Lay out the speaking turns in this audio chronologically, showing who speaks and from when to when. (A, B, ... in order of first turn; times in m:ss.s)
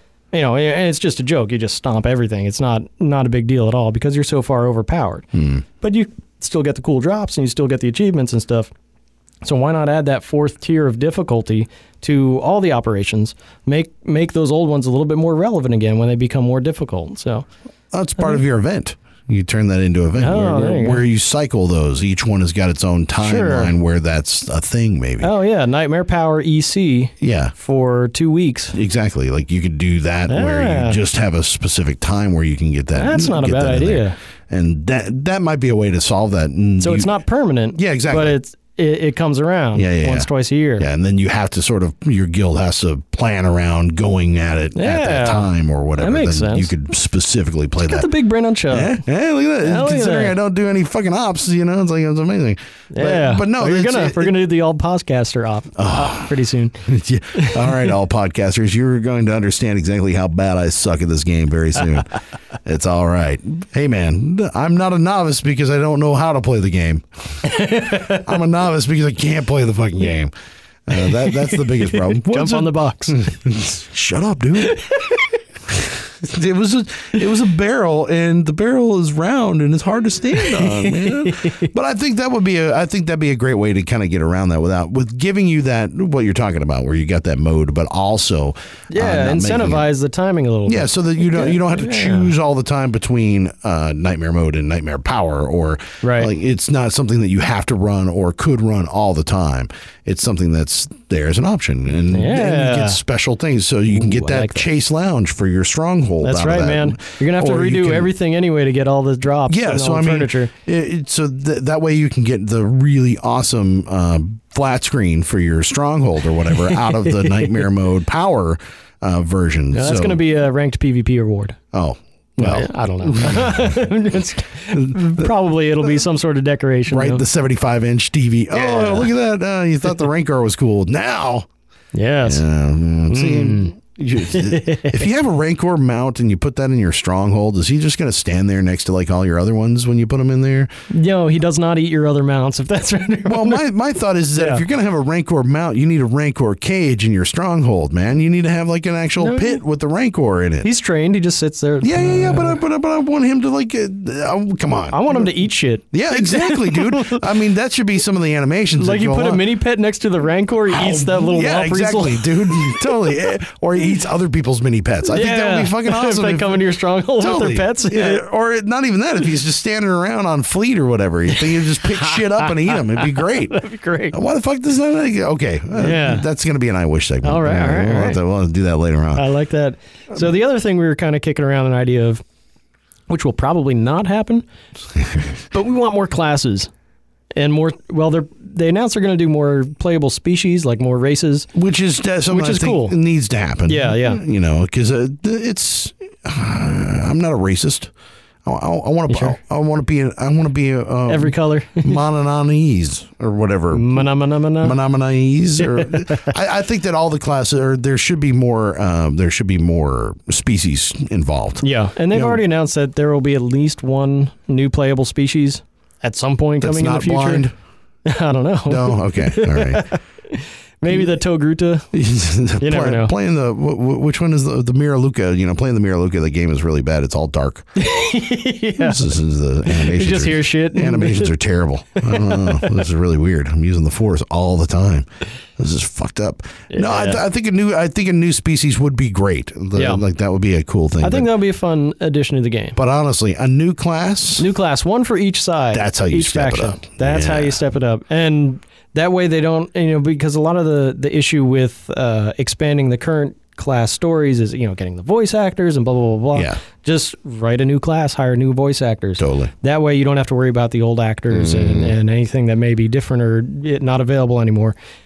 0:00.3-0:05.3 A
0:05.3-0:05.6 B
0:05.8-0:08.7 A
0:09.4-0:17.5 A
0:17.9-0:25.3 B
0:20.2-0:21.0 A
0:23.2-0:23.7 A
0:25.2-0:28.8 A
0:27.2-0:27.5 B
0:28.7-0:37.1 B
0:30.3-0:31.0 A
0:32.9-0:34.2 A
0:36.8-0:40.9 A
0:37.8-0:38.4 B
0:39.8-0:48.1 B
0:44.8-0:46.7 A
0:47.8-0:49.0 A
0:48.7-0:54.4 B
0:49.6-0:50.4 A
0:52.9-0:57.9 A
0:55.8-1:10.3 B
1:07.4-1:08.2 A
1:10.9-1:14.8 B
1:11.5-1:13.2 A
1:14.6-1:15.2 A
1:15.7-1:29.9 B
1:20.4-1:21.7 A
1:28.9-1:32.3 A
1:30.7-1:48.1 B
1:36.0-1:36.3 A
1:42.1-1:43.0 A
1:44.0-1:44.7 A
1:46.2-1:50.5 A
1:49.5-2:00.2 B
1:59.7-2:01.6 A
2:01.7-2:03.8 B
2:02.4-2:07.2 A
2:04.7-2:05.3 B
2:06.9-2:11.5 B
2:08.5-2:09.1 A
2:11.9-2:12.4 A
2:12.2-2:20.7 B
2:13.1-2:15.1 A
2:20.9-2:23.7 A
2:23.3-2:30.7 B
2:24.4-2:24.6 A
2:29.2-2:29.6 A
2:30.6-2:32.6 A
2:31.8-2:35.3 B
2:34.9-2:37.3 A
2:35.9-2:39.5 B
2:38.8-2:43.1 A
2:40.7-2:53.6 B
2:45.1-2:48.2 A
2:51.3-2:54.2 A
2:54.1-2:59.3 B
2:55.8-2:56.3 A
2:57.2-2:58.2 A
2:59.2-3:02.2 A
3:03.1-3:04.4 A
3:05.4-3:06.7 A
3:07.4-3:11.5 A
3:11.5-3:17.9 B
3:12.3-3:13.0 A
3:13.7-3:14.2 A
3:18.4-3:24.1 B
3:19.1-3:19.4 A
3:21.1-3:22.0 A
3:23.7-3:24.8 A
3:24.6-3:32.4 B
3:25.6-3:26.3 A
3:31.6-3:37.5 A
3:36.6-3:37.5 B
3:38.1-3:41.9 A
3:38.7-3:39.9 B
3:41.9-3:47.7 B
3:42.6-3:43.1 A
3:47.8-3:49.0 A
3:48.8-4:01.3 B
3:49.7-3:51.3 A
3:52.0-3:52.8 A
3:56.7-3:57.2 A
3:59.8-4:00.0 A
4:01.0-4:02.8 A
4:02.8-4:04.5 B
4:04.4-4:24.8 A
4:05.7-4:07.6 B
4:16.3-4:16.6 B
4:19.2-4:19.5 B
4:21.3-4:21.9 B